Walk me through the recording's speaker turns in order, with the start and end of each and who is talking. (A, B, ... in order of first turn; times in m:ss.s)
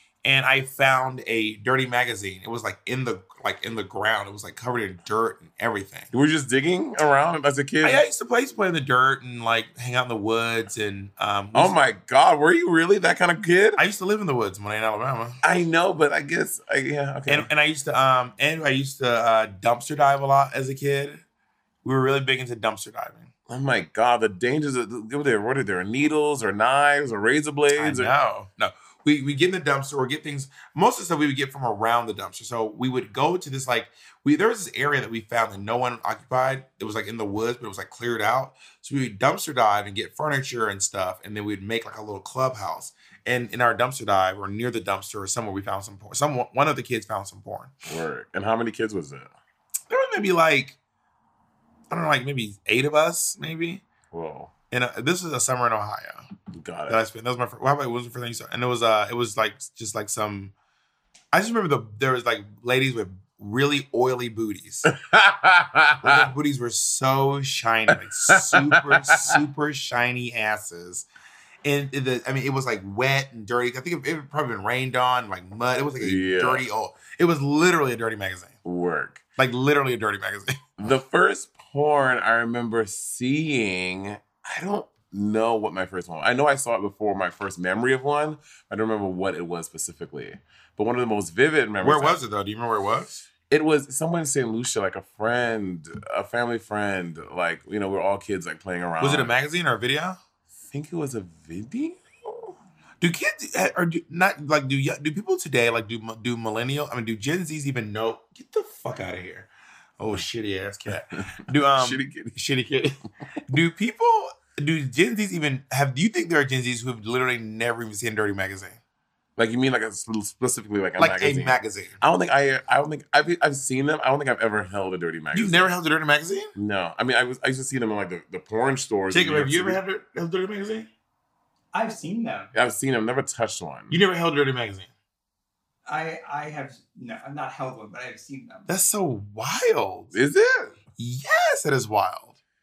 0:00.2-0:06.1 A
0:06.1-0:08.0 B
0:07.8-0:11.7 A
0:11.5-0:13.8 B
0:13.8-0:15.4 A
0:15.4-0:17.5 B
0:17.3-0:21.2 A
0:21.8-0:23.3 A
0:23.5-0:28.1 B
0:27.7-0:47.7 A
0:47.8-0:49.3 B
0:49.9-0:50.8 A
0:51.9-0:53.8 A
0:54.1-0:54.5 B
0:54.7-0:56.2 A
0:56.6-0:57.0 B
0:56.9-1:00.5 A
1:01.3-1:04.9 A
1:04.8-1:06.3 B
1:06.0-1:11.0 A
1:08.0-1:09.4 B
1:11.6-1:18.6 A
1:16.0-1:16.6 B
1:18.6-1:19.2 B
1:19.4-1:20.7 A
1:20.8-1:32.2 B
1:31.8-1:33.2 A
1:33.5-1:39.3 B
1:39.0-1:40.2 A
1:40.7-1:42.5 B
1:43.0-1:53.0 A
1:51.7-1:52.4 B
1:53.5-1:58.8 A
1:59.4-2:05.7 B
2:01.0-2:02.0 A
2:05.3-2:06.5 A
2:06.5-2:09.8 B
2:09.1-2:10.9 A
2:11.7-2:12.5 C
2:12.5-2:14.0 B
2:13.9-2:14.9 A
2:15.8-2:18.7 C
2:18.7-2:20.1 A
2:20.1-2:20.7 B
2:21.0-2:22.4 A